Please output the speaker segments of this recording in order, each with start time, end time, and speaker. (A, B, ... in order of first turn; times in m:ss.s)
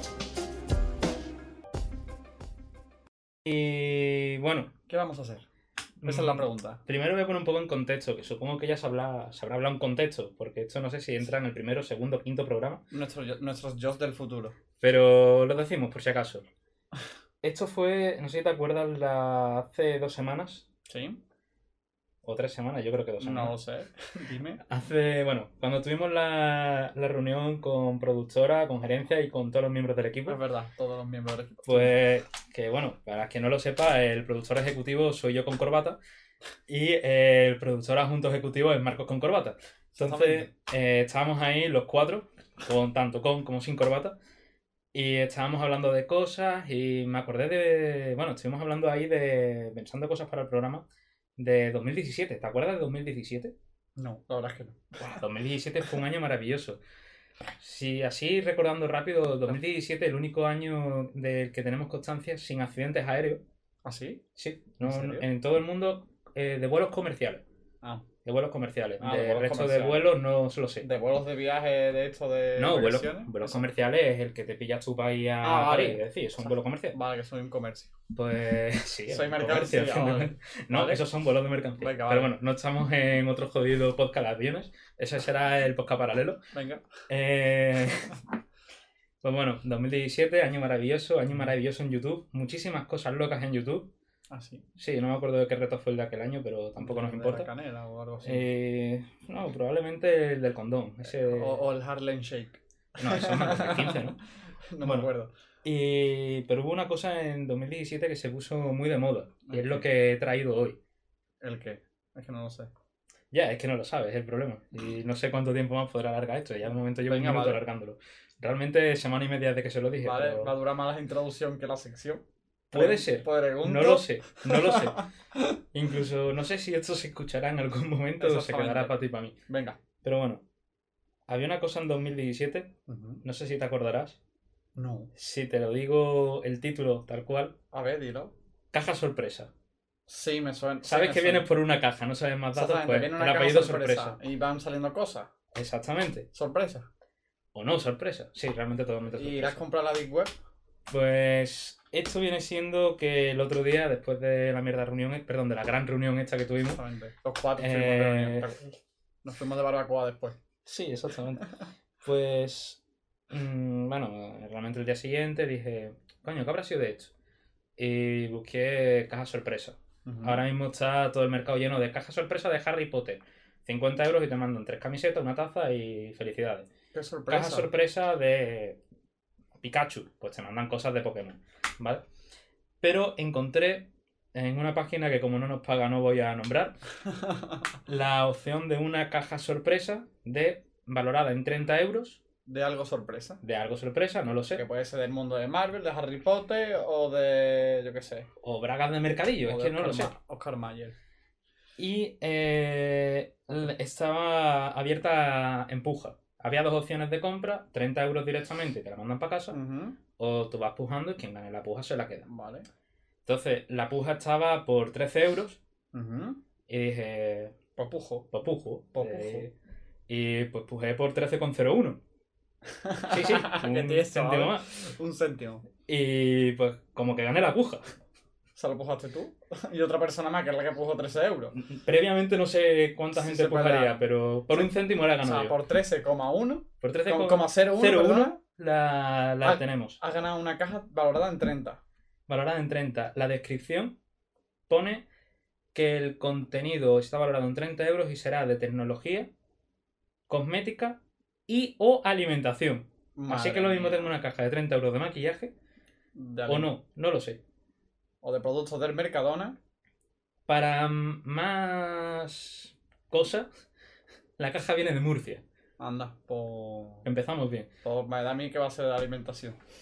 0:03.4-0:04.7 A
0:04.9-0:05.4 B
0:06.0-0:12.8 A
0:06.0-0:06.8 B
0:12.9-0:14.6 B
0:14.8-0:16.4 A
0:17.4-0:20.6 A
0:20.9-0:21.2 B
0:22.2-0:23.5 A
0:23.2-0:24.6 B
0:24.7-0:30.4 A
0:30.3-0:31.9 B
0:31.7-0:36.0 A
0:36.7-0:44.2 A
0:40.0-0:40.5 B
0:44.9-0:50.9 A
0:51.4-0:53.5 A
0:54.0-0:55.2 B
0:55.0-0:56.8 A
0:57.6-1:03.4 A
1:03.8-1:04.2 B
1:04.4-1:07.4 A
1:04.8-1:05.3 B
1:08.2-1:10.9 A
1:09.0-1:10.1 B
1:10.8-1:13.7 B
1:12.6-1:17.0 A
1:15.4-1:17.9 B
1:18.1-1:26.4 A
1:19.1-1:21.0 B
1:21.8-1:22.4 B
1:26.5-1:26.8 B
1:27.1-1:28.2 A
1:29.2-1:33.9 A
1:34.3-1:34.6 B
1:34.8-1:37.5 A
1:36.8-1:38.5 B
1:38.2-1:41.7 A
1:41.0-1:44.1 B
1:43.0-1:44.2 A
1:44.7-1:45.3 B
1:44.8-1:45.1 A
1:45.6-1:50.8 A
1:49.5-1:49.9 B
1:51.4-1:52.7 B
1:53.3-2:00.6 A
1:57.1-1:57.6 B
2:00.0-2:05.4 B
2:02.7-2:05.0 A
2:05.7-2:09.3 A
2:08.2-2:09.8 B
2:10.0-2:10.4 A
2:11.3-2:12.7 A
2:12.9-2:13.2 B
2:13.2-2:14.2 A
2:14.8-2:15.1 B
2:15.2-2:17.6 A
2:17.7-2:18.3 B
2:18.7-2:19.5 A
2:20.1-2:21.5 B
2:20.8-2:24.2 A
2:22.5-2:25.3 B
2:25.5-2:26.3 A
2:26.3-2:26.9 B
2:27.6-2:29.6 A
2:29.2-2:30.4 B
2:30.9-2:36.8 A
2:36.7-2:40.4 B
2:37.6-2:38.5 A
2:40.6-2:41.5 A
2:42.0-2:42.8 A
2:43.3-2:47.1 A
2:47.8-2:56.7 A
2:50.1-2:50.4 B
2:56.9-2:57.7 B
2:57.3-2:58.8 A
2:59.6-3:02.0 A
3:02.8-3:06.8 A
3:07.1-3:07.6 B
3:07.9-3:12.2 A
3:12.5-3:13.4 B
3:13.4-3:14.6 A
3:14.6-3:18.3 B
3:18.4-3:20.1 A
3:19.4-3:21.0 B
3:21.8-3:29.6 A
3:29.5-3:30.0 B
3:30.2-3:32.3 A
3:32.2-3:32.7 B
3:33.3-3:35.6 A
3:35.9-3:36.4 B
3:36.7-3:37.5 A
3:37.8-3:38.3 B
3:38.3-3:39.5 A
3:39.0-3:39.5 B
3:40.1-3:42.0 A
3:42.8-3:45.6 B
3:43.1-3:44.7 A
3:45.9-3:47.8 A
3:48.6-3:51.6 B
3:51.6-3:55.6 A
3:53.2-3:58.4 B
3:56.8-4:00.0 A
3:59.4-4:01.8 B
4:02.3-4:04.0 A
4:04.7-4:05.1 A
4:05.7-4:09.3 A
4:10.3-4:15.5 A
4:13.2-4:14.1 B
4:16.2-4:16.7 B
4:16.5-4:17.4 A
4:18.2-4:19.6 B
4:20.5-4:23.5 A
4:24.4-4:25.4 A
4:25.8-4:27.1 B
4:27.0-4:27.7 A
4:27.8-4:29.6 B